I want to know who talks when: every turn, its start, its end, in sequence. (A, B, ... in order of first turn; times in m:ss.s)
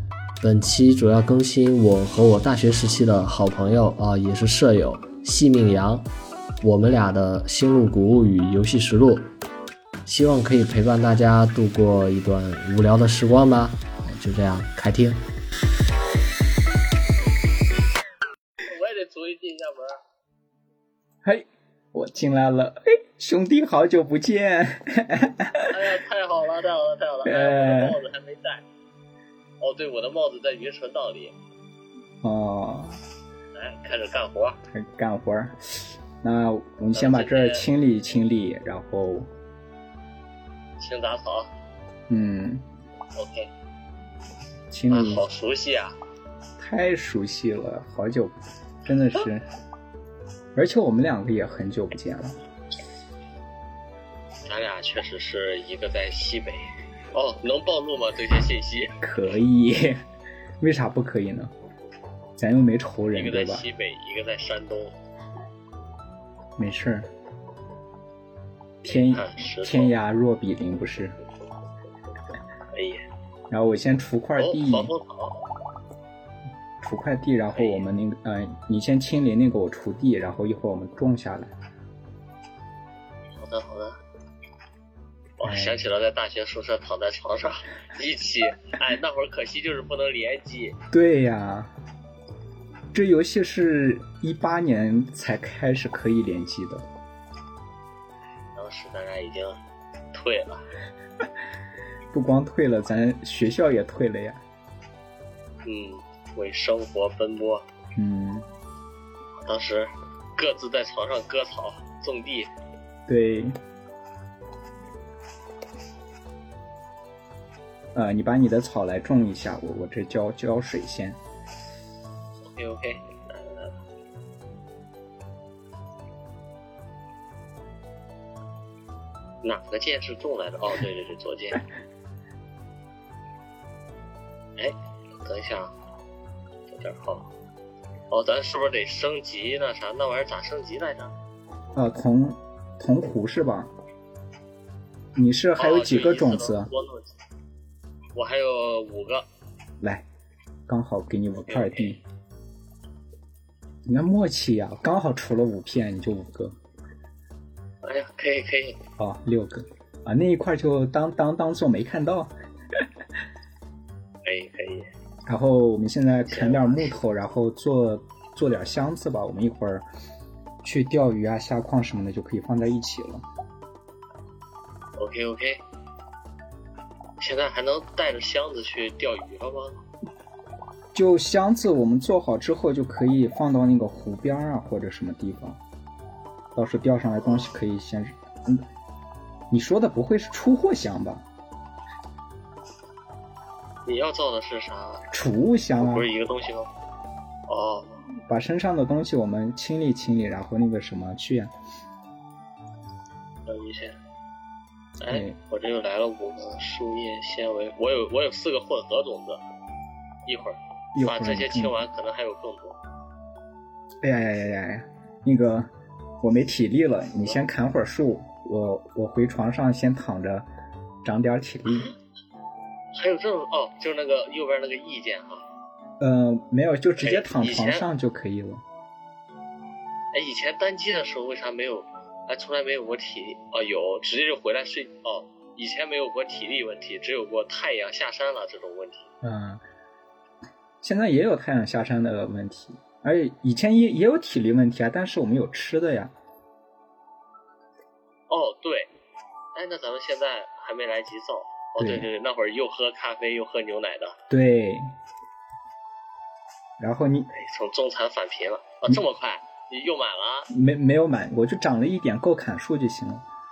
0:00.4-0:06.1 A
0:06.6-0:09.3 A
0:10.0-0:15.2 A
0:18.7-0:20.0 B
0:21.2-0:25.9 C
0:25.7-0:28.6 B
0:27.2-0:28.0 C
0:29.6-0:31.3 B
0:32.2-0:33.0 C
0:33.5-0:34.6 B
0:34.7-0:39.3 C
0:36.9-0:37.7 B
0:40.8-0:41.5 B
0:42.1-0:42.6 C
0:43.1-0:43.5 B
0:44.7-0:45.2 C
0:44.9-0:46.0 B
0:46.6-0:49.5 C
0:50.5-0:52.4 C
0:54.4-0:59.0 B
0:59.0-1:00.0 C
1:00.6-1:01.5 C
1:02.4-1:03.6 C
1:03.1-1:05.0 B
1:06.6-1:07.1 C
1:08.8-1:11.2 C
1:08.9-1:09.9 B
1:12.7-1:13.0 B
1:13.5-1:14.9 C
1:14.4-1:15.4 B
1:16.8-1:21.5 C
1:17.5-1:17.9 B
1:23.4-1:24.0 B
1:25.4-1:30.8 B
1:25.4-1:25.8 C
1:30.9-1:31.7 C
1:32.9-1:36.8 C
1:38.5-1:39.6 B
1:40.1-1:40.7 B
1:42.1-1:44.4 C
1:45.6-1:47.6 B
1:48.0-1:48.5 C
1:49.4-1:52.5 B
1:53.1-1:53.5 C
1:57.9-2:01.2 C
2:02.5-2:03.8 B
2:09.4-2:11.6 B
2:14.6-2:15.7 B
2:16.7-2:17.3 B
2:18.1-2:21.1 B
2:21.7-2:23.7 C
2:25.1-2:26.7 C
2:25.6-2:27.1 B
2:28.1-2:29.2 B
2:29.8-2:30.0 C
2:30.7-2:32.0 C
2:31.4-2:32.0 B
2:33.8-2:36.6 C
2:37.8-2:38.8 B
2:39.0-2:42.8 C
2:44.2-2:44.9 B
2:45.3-2:49.8 C
2:46.3-2:46.9 B
2:50.6-2:53.2 C
2:55.0-2:55.6 B
2:57.2-2:59.8 B
3:00.9-3:05.6 C
3:06.5-3:08.6 C
3:09.5-3:11.2 C
3:13.8-3:15.0 B
3:15.1-3:16.1 C
3:15.8-3:16.7 B
3:17.5-3:18.0 B
3:18.3-3:21.5 C
3:23.4-3:24.0 B
3:25.0-3:29.4 B
3:25.1-3:25.4 C
3:30.2-3:32.8 B
3:30.9-3:31.8 C
3:34.0-3:35.7 C
3:36.2-3:40.5 C
3:41.0-3:41.9 C
3:41.7-3:42.0 B
3:42.9-3:45.4 B
3:46.0-3:48.6 C
3:47.0-3:47.8 B
3:50.1-3:59.1 B
3:59.2-3:59.6 C
4:00.8-4:06.1 C
4:08.3-4:08.9 B
4:09.5-4:14.2 B
4:11.8-4:12.1 C
4:14.3-4:14.9 C
4:16.8-4:17.3 C
4:17.3-4:20.5 B
4:20.5-4:23.2 C